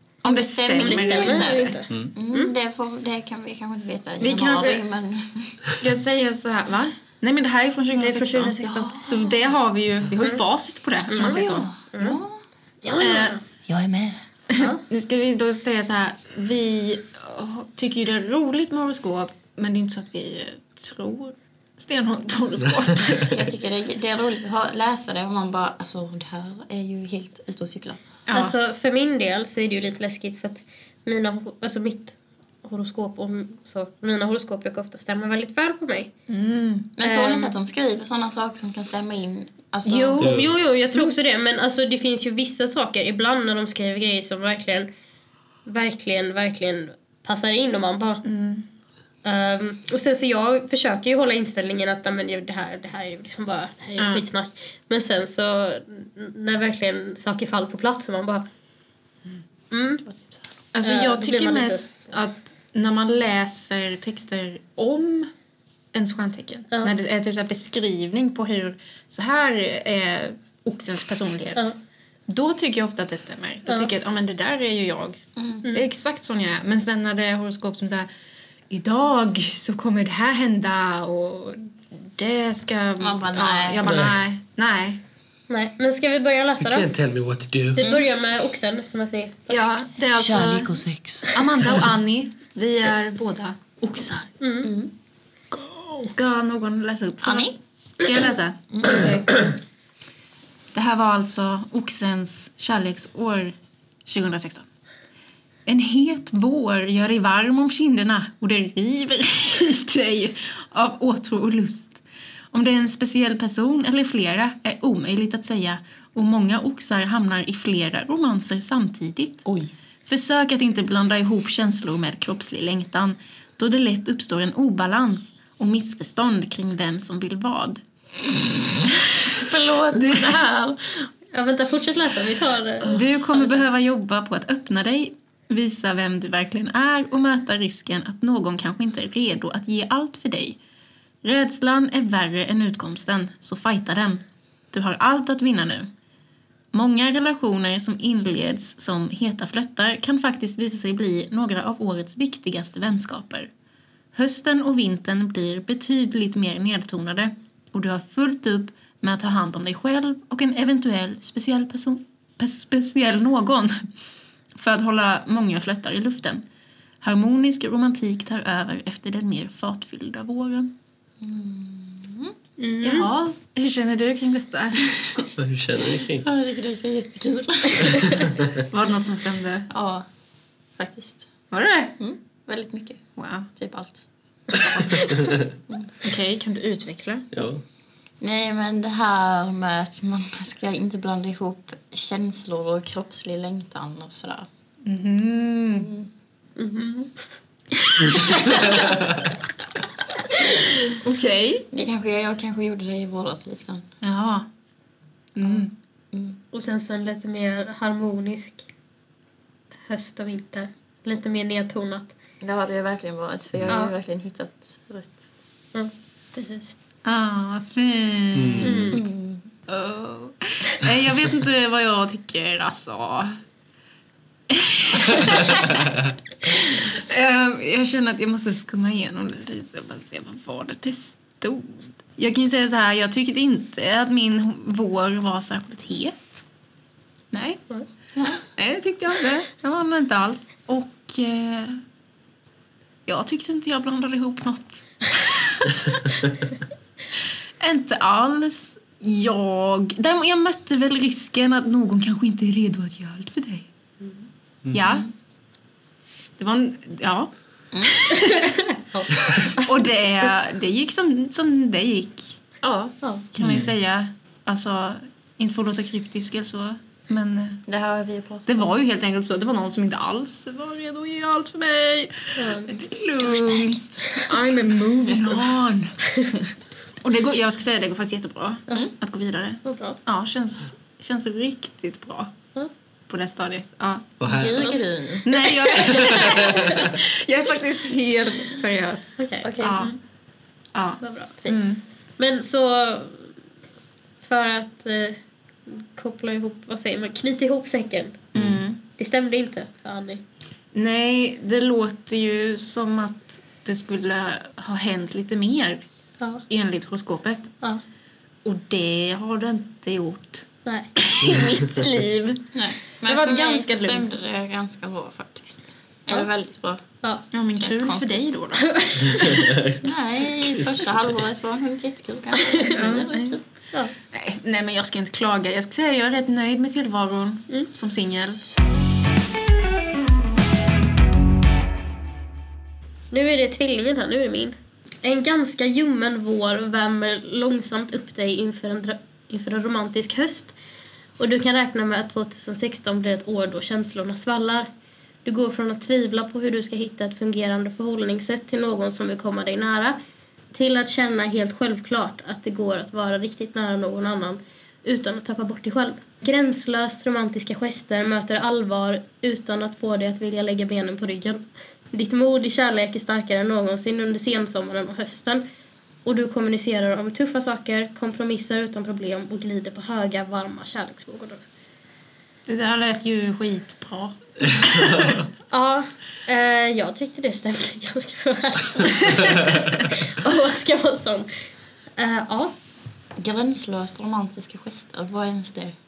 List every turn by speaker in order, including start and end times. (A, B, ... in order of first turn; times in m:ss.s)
0:00.2-0:01.8 A
0:00.2-0:05.6 B
0:00.8-0:02.5 C
0:04.2-0:04.8 A
0:05.7-0:11.7 A
0:07.9-0:08.9 C
0:08.9-0:09.3 B
0:11.1-0:12.2 C
0:11.2-0:12.4 B
0:12.8-0:13.4 C
0:13.0-0:13.4 A
0:13.7-0:14.2 B
0:14.5-0:23.5 A
0:14.6-0:14.8 C
0:23.2-0:28.0 B
0:28.3-0:28.6 A
0:28.3-0:36.1 C
0:36.3-0:36.9 A
0:37.0-0:40.3 B
0:37.0-0:37.5 C
0:39.8-0:40.4 A
0:40.2-0:44.9 C
0:40.2-0:40.5 D
0:45.7-0:48.2 C
0:48.2-0:48.7 A
0:49.2-0:58.5 C
0:54.0-0:54.2 A
0:59.7-1:00.0 C
1:00.1-1:00.4 B
1:00.7-1:05.3 A
1:00.8-1:01.9 C
1:05.9-1:11.7 A
1:12.3-1:18.1 A
1:13.7-1:13.9 C
1:15.4-1:15.6 B
1:18.7-1:25.0 A
1:23.0-1:24.0 B
1:23.9-1:24.1 D
1:25.5-1:26.9 C
1:26.6-1:27.9 D
1:27.8-1:29.8 C
1:27.8-1:28.1 B
1:29.5-1:34.3 A
1:30.1-1:31.8 B
1:34.4-1:34.7 C
1:34.6-1:34.9 B
1:36.0-1:39.5 A
1:37.2-1:37.6 B
1:38.7-1:39.1 B
1:40.7-1:43.6 A
1:44.1-1:44.7 A
1:45.7-1:52.0 A
1:52.5-1:59.5 A
1:59.5-1:59.7 B
2:00.1-2:07.8 A
2:09.3-2:11.1 B
2:09.9-2:10.4 A
2:11.3-2:13.6 C
2:12.8-2:20.6 A
2:21.2-2:25.9 A
2:26.7-2:33.5 A
2:34.1-2:43.9 A
2:44.6-2:46.4 A
2:47.0-2:50.7 A
2:51.2-2:52.4 B
2:52.6-2:53.1 C
2:52.8-2:55.3 A
2:55.3-2:56.3 D
2:56.2-2:58.3 B
2:58.0-2:58.5 D
2:58.7-2:59.7 A
2:59.7-3:00.1 B
3:00.8-3:01.2 B
3:01.5-3:02.0 A
3:02.0-3:03.0 B
3:03.2-3:03.5 A
3:03.6-3:06.0 B
3:06.0-3:07.3 A
3:07.3-3:07.6 D
3:08.2-3:14.5 B
3:14.9-3:15.9 A
3:15.8-3:16.1 B
3:16.6-3:17.1 C
3:20.9-3:21.7 A
3:21.7-3:23.9 B
3:24.0-3:24.5 A
3:25.4-3:25.7 A
3:25.4-3:26.4 B
3:26.5-3:28.7 C
3:29.9-3:32.2 C
3:32.4-3:35.2 B
3:33.7-3:33.9 C
3:35.7-3:36.8 C
3:37.0-3:39.0 A
3:38.3-3:39.0 D
3:38.6-3:39.0 C
3:38.9-3:39.5 B
3:39.7-3:43.4 A
3:44.5-3:45.9 A
3:46.4-3:56.4 A
3:57.3-3:57.6 A
3:58.5-4:01.8 A
4:03.1-4:05.9 A
4:07.6-4:13.7 A
4:14.0-4:14.3 C
4:14.7-4:15.1 A
4:16.4-4:17.3 A
4:17.7-4:18.1 B
4:17.8-4:18.7 A
4:18.1-4:19.5 C
4:19.6-4:22.4 A
4:22.6-4:22.9 B
4:23.3-4:27.6 A
4:23.4-4:23.7 D
4:27.7-4:28.8 B
4:28.5-4:36.5 A
4:32.4-4:32.7 C
4:33.3-4:33.7 B
4:35.1-4:35.5 B
4:37.0-4:42.3 A
4:39.6-4:40.0 C
4:43.1-4:44.2 A
4:44.2-4:44.8 D
4:44.2-4:45.3 B
4:45.2-4:49.9 A
4:45.9-4:47.0 D
4:46.0-4:46.6 C
4:49.2-4:50.0 C
4:49.4-4:49.8 B
4:50.8-4:51.8 A
4:51.0-4:53.3 C
4:54.2-4:58.2 C
4:58.4-4:58.6 D
4:58.4-4:58.8 A
4:59.0-5:00.2 C
5:00.7-5:05.8 A
5:06.5-5:07.5 A
5:08.4-5:12.5 A
5:12.5-5:16.8 B
5:13.0-5:14.2 A
5:17.3-5:19.5 A
5:17.6-5:18.4 B
5:18.6-5:19.2 C
5:19.0-5:20.9 D
5:19.8-5:23.4 B
5:22.4-5:22.7 C
5:22.7-5:23.4 A
5:24.1-5:28.4 A
5:33.1-5:40.6 C
5:41.2-5:44.7 C
5:45.2-5:50.0 C
5:50.5-6:05.5 C
6:06.0-6:11.4 C
6:12.5-6:15.2 A
6:14.4-6:15.3 D
6:15.5-6:21.3 C
6:22.0-6:22.5 C
6:23.2-6:25.8 B